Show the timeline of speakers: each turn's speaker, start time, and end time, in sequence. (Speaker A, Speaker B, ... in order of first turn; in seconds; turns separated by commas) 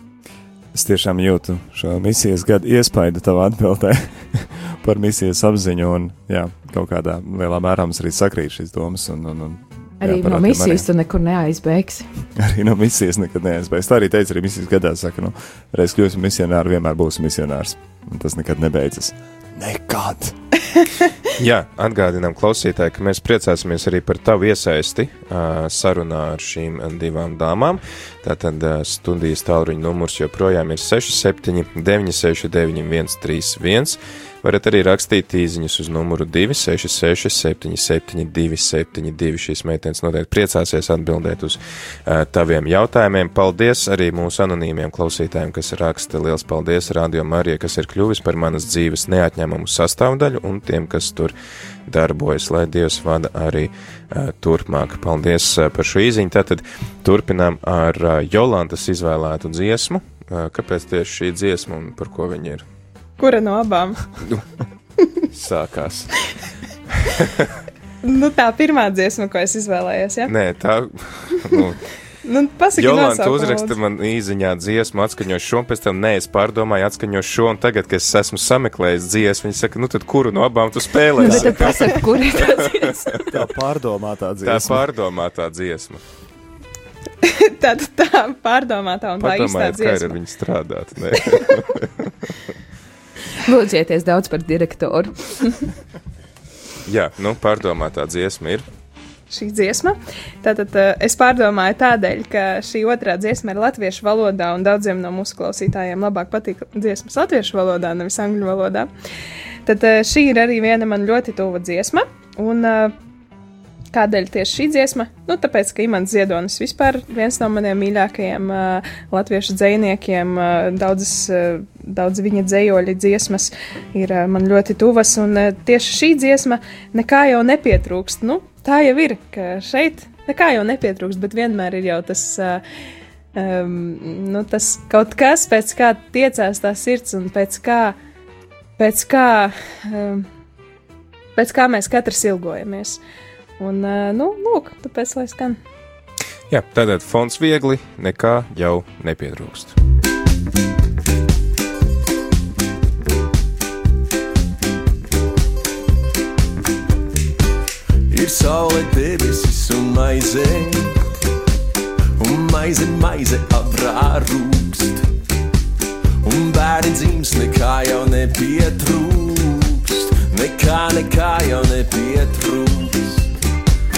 Speaker A: 0.7-10.9, Speaker B: 10.0-12.1, Speaker A: 12.4-20.4, Speaker C: 21.4-51.4, Speaker C: 51.9-62.6, Speaker D: 63.2-64.0, Speaker C: 65.3-66.2, Speaker C: 67.2-67.5, Speaker D: 68.0-70.3, Speaker C: 70.3-71.8, Speaker D: 72.2-73.8, Speaker C: 72.8-82.5, Speaker B: 81.2-83.3, Speaker A: 81.3-81.6, Speaker A: 83.3-84.8, Speaker C: 84.4-86.0, Speaker D: 87.2-90.2, Speaker C: 89.2-92.0, Speaker B: 93.5-95.6, Speaker C: 96.9-98.7, Speaker D: 99.3-108.9, Speaker D: 109.7-113.0, Speaker D: 113.9-132.6, Speaker D: 133.3-138.0, Speaker D: 138.8-140.3, Speaker D: 141.4-143.0, Speaker D: 143.6-145.6, Speaker C: 146.5-149.8, Speaker E: 158.1-160.9, Speaker E: 162.2-165.1, Speaker E: 166.2-173.3